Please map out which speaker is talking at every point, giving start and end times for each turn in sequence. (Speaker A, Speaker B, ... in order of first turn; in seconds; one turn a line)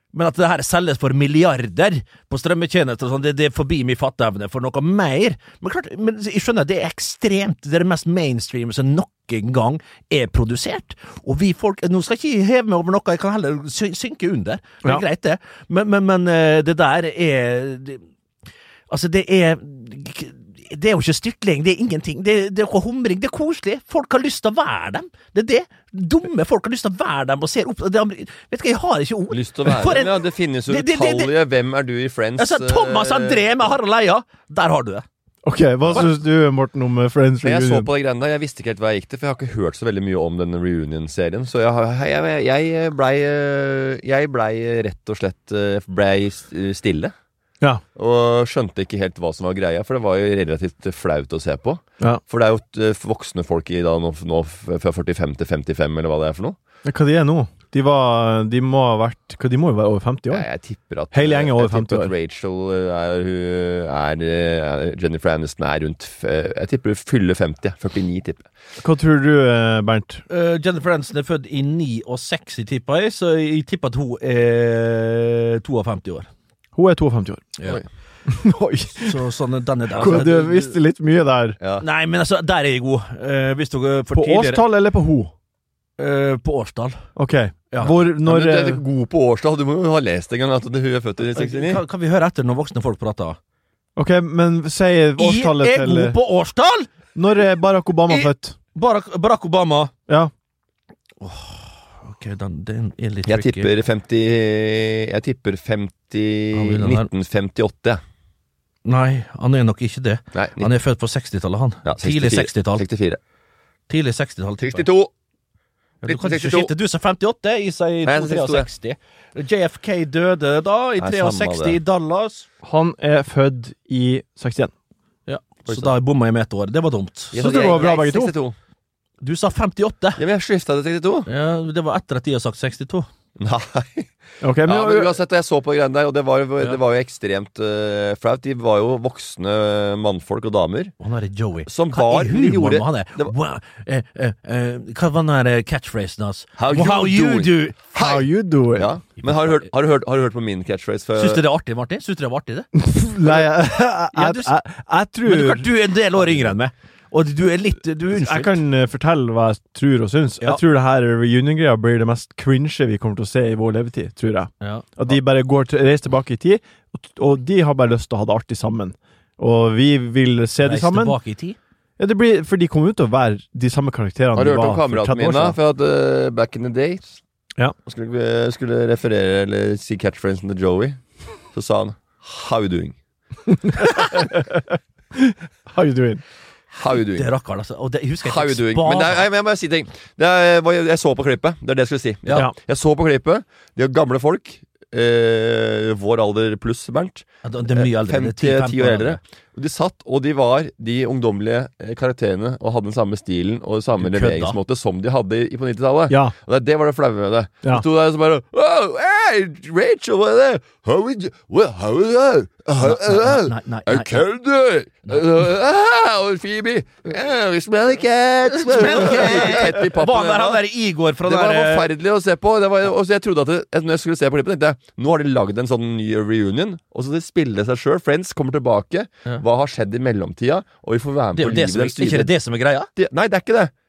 Speaker A: 0.1-18.0
Speaker A: 18.9-31.3
Speaker B: 29.3-33.5
Speaker A: 32.4-35.0
Speaker C: 35.4-37.9
Speaker B: 35.9-36.1
Speaker B: 37.4-47.1
Speaker B: 48.0-56.6
Speaker C: 56.8-60.5
Speaker B: 60.3-68.5
Speaker C: 61.1-62.1
Speaker C: 68.8-70.2
Speaker A: 70.3-76.3
Speaker C: 76.8-77.5
Speaker C: 78.3-79.2
Speaker A: 79.0-80.7
Speaker C: 80.0-81.6
Speaker B: 81.6-81.8
Speaker A: 81.8-84.6
Speaker C: 84.1-85.3
Speaker A: 86.0-87.1
Speaker C: 87.2-88.8
Speaker B: 88.2-91.8
Speaker A: 91.3-93.4
Speaker C: 94.0-96.1
Speaker A: 95.2-96.9
Speaker C: 97.1-98.5
Speaker A: 98.1-99.9
Speaker A: 101.2-103.7
Speaker B: 103.2-108.0
Speaker A: 106.5-107.1
Speaker A: 108.8-112.8
Speaker B: 110.3-110.7
Speaker B: 111.8-113.2
Speaker A: 113.9-114.8
Speaker B: 114.6-115.1
Speaker A: 116.0-122.5
Speaker B: 116.0-116.7
Speaker B: 118.0-118.7
Speaker B: 121.0-121.8
Speaker C: 122.6-124.7
Speaker A: 125.3-127.9
Speaker B: 127.3-128.6
Speaker C: 127.3-128.3
Speaker A: 129.2-130.2
Speaker B: 130.2-131.3
Speaker A: 131.3-133.1
Speaker B: 133.4-134.1
Speaker C: 134.4-135.1
Speaker B: 134.6-140.9
Speaker A: 141.0-147.8
Speaker B: 141.7-143.3
Speaker B: 146.6-151.4
Speaker C: 148.0-148.9
Speaker A: 151.2-152.7
Speaker C: 152.7-155.7
Speaker A: 154.1-154.5
Speaker A: 155.2-158.6
Speaker C: 158.1-171.2
Speaker A: 164.6-164.9
Speaker A: 170.6-171.6
Speaker C: 172.0-175.6
Speaker B: 174.3-177.2
Speaker B: 177.8-181.0
Speaker B: 181.5-183.0
Speaker C: 183.8-184.6
Speaker C: 185.1-186.2
Speaker B: 186.7-187.3
Speaker A: 187.1-189.2
Speaker B: 188.2-232.3
Speaker A: 192.2-192.5
Speaker A: 197.4-199.2
Speaker A: 204.0-204.6
Speaker A: 212.8-214.2
Speaker A: 218.5-221.9
Speaker A: 231.3-232.9
Speaker B: 232.9-233.7